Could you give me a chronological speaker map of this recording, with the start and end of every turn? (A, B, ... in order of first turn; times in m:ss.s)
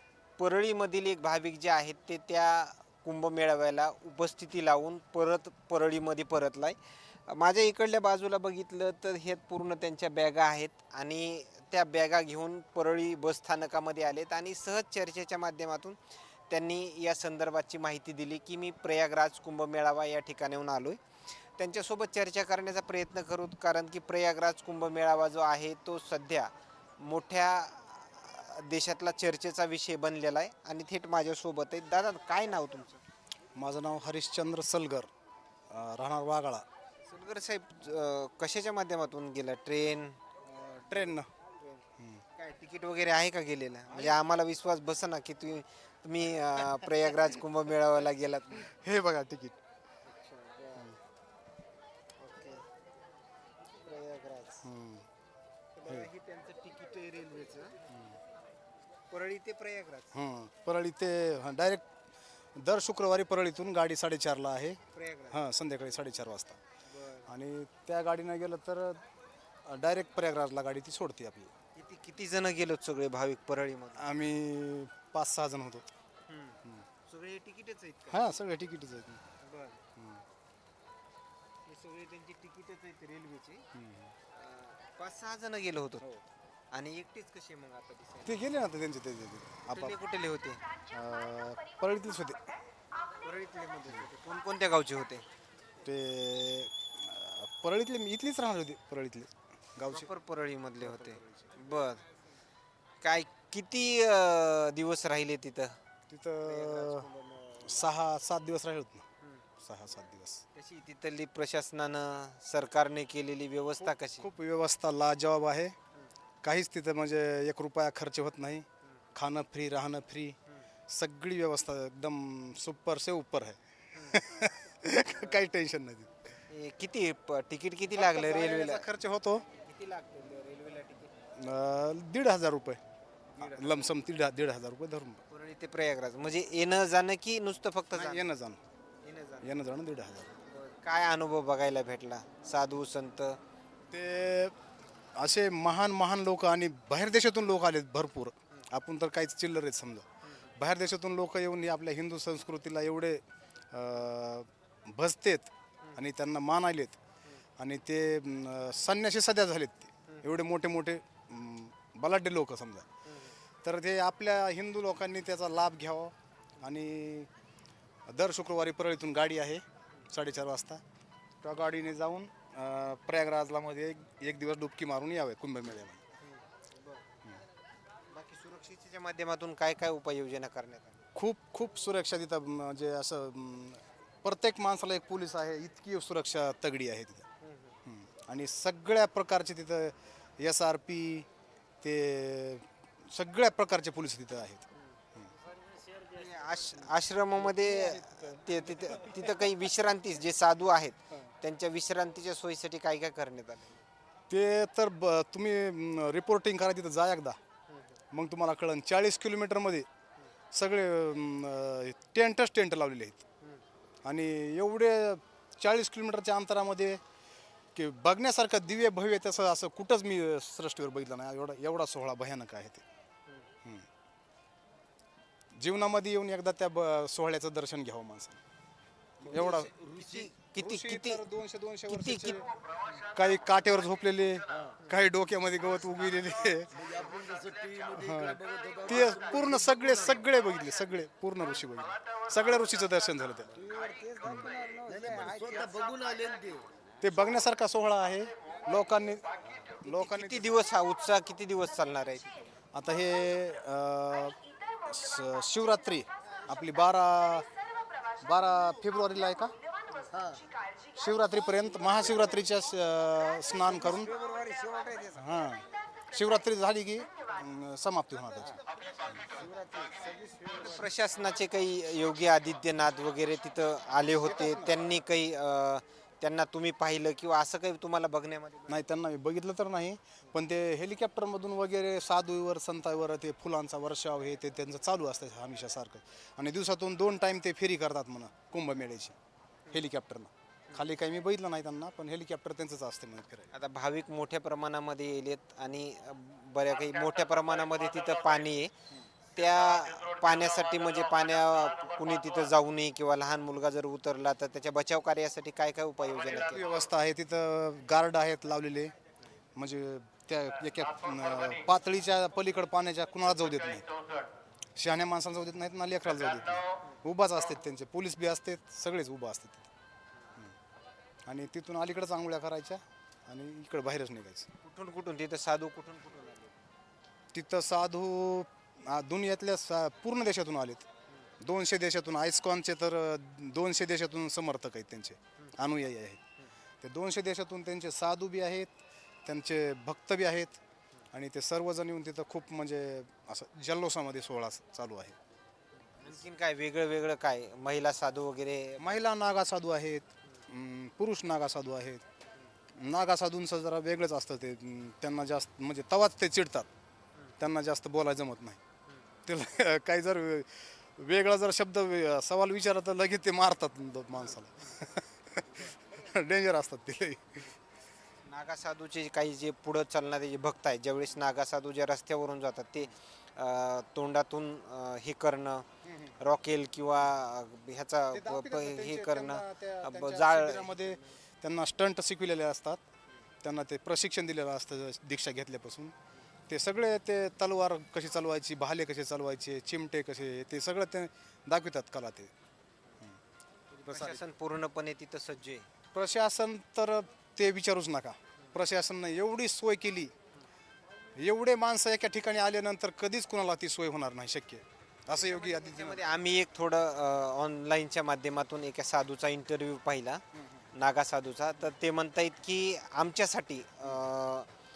0:00.4-0:16.0 A
0:16.5-0:21.0 A
0:21.6-0:33.0 A
0:33.5-0:35.1 B
0:35.7-0:36.6 B
0:37.0-0:41.8 A
0:40.8-0:41.3 B
0:42.0-0:42.2 B
0:42.4-0:48.7 A
0:48.6-0:49.6 B
0:50.1-0:50.9 A
0:52.2-0:52.6 A
0:53.8-0:54.7 A
0:54.6-0:55.0 B
0:55.8-0:57.8 A
0:57.9-0:58.2 B
0:59.1-1:00.1 A
1:00.1-1:01.8 B
1:02.5-1:04.8 B
1:04.9-1:05.4 A
1:05.3-1:06.6 B
1:06.9-1:07.3 A
1:07.3-1:09.0 B
1:09.6-1:11.5 B
1:11.8-1:14.1 A
1:14.0-1:15.9 B
1:16.3-1:18.3 A
1:18.1-1:19.2 B
1:19.4-1:19.8 A
1:20.0-1:20.2 B
1:21.6-1:23.6 A
1:23.7-1:24.1 B
1:24.3-1:26.2 A
1:26.7-1:28.4 A
1:28.2-1:30.0 B
1:29.7-1:30.6 A
1:30.9-1:32.5 B
1:33.2-1:35.2 A
1:35.8-1:40.1 B
1:39.9-1:42.0 A
1:40.8-1:41.5 B
1:43.0-1:45.8 A
1:46.1-1:47.1 B
1:46.4-1:47.9 A
1:47.6-1:49.0 B
1:49.6-1:50.4 B
1:50.5-1:54.3 A
1:53.8-1:55.7 B
1:56.4-2:00.4 B
2:00.9-2:06.2 B
2:03.9-2:04.5 A
2:05.0-2:05.5 A
2:06.5-2:08.8 A
2:07.9-2:09.4 B
2:09.5-2:11.1 A
2:11.4-2:12.8 B
2:13.4-2:13.9 A
2:13.4-2:15.2 B
2:15.3-2:18.2 A
2:17.9-2:18.6 B
2:19.0-2:19.5 A
2:19.4-2:20.4 B
2:20.5-2:23.4 A
2:23.9-2:24.5 B
2:25.2-2:33.2 B
2:33.7-2:37.0 B
2:37.6-2:42.9 B
2:43.0-2:43.3 A
2:43.6-2:47.3 B
2:48.1-2:50.8 B
2:51.4-2:56.0 B
2:56.2-2:57.0 A
2:58.1-3:01.0 A
3:01.1-3:07.3 B
3:07.4-3:07.8 A
3:07.8-3:11.3 B
3:11.8-3:15.3 B
3:15.9-3:23.8 A
3:17.4-3:19.4 B
3:24.3-3:27.4 B
3:27.7-3:28.0 A
3:28.1-3:29.9 B
3:30.5-3:33.2 B
3:34.0-3:37.0 B
3:37.7-3:42.8 B
3:45.6-3:48.4 B
3:49.2-3:49.8 B
3:49.2-3:51.2 A
3:50.6-3:52.4 B
3:51.9-3:52.4 A
3:53.1-3:57.0 B
3:57.0-3:58.8 C
3:57.9-4:03.6 B
4:03.7-4:05.7 A
4:04.2-4:04.5 B
4:04.8-4:06.6 C
4:07.0-4:09.2 B
4:09.8-4:10.5 B
4:09.8-4:12.4 A
4:12.7-4:17.5 B
4:18.2-4:19.5 B
4:19.9-4:20.4 A
4:21.0-4:24.1 B
4:24.0-4:25.1 A
4:25.1-4:29.4 B
4:29.4-4:30.5 C
4:30.4-4:38.8 A
4:34.1-4:34.8 B
4:38.7-4:49.2 B
4:49.7-4:53.5 B
4:53.5-4:58.7 A
4:59.3-5:06.7 A
5:06.3-5:08.9 B
5:09.6-5:13.9 B
5:14.8-5:19.7 B
5:21.3-5:24.5 B
5:24.6-5:26.5 A
5:27.3-5:30.8 B
5:31.4-5:36.2 B
5:36.8-5:38.7 B
5:39.2-5:40.6 B
5:41.1-5:45.2 B
5:46.0-5:49.0 A
5:48.8-5:52.0 B
5:52.7-5:56.7 B
5:57.4-5:58.6 B
5:59.3-6:07.5 B
6:04.3-6:04.7 A
6:05.5-6:05.8 A
6:08.2-6:15.6 A
6:15.8-6:16.2 B
6:16.2-6:21.1 A
6:18.1-6:22.8 B
6:23.4-6:25.9 B
6:26.5-6:32.3 B
6:33.8-6:35.6 A
6:33.8-6:34.2 B
6:35.9-6:40.1 B
6:41.2-6:46.0 B
6:45.1-6:54.5 A
6:50.3-6:50.6 B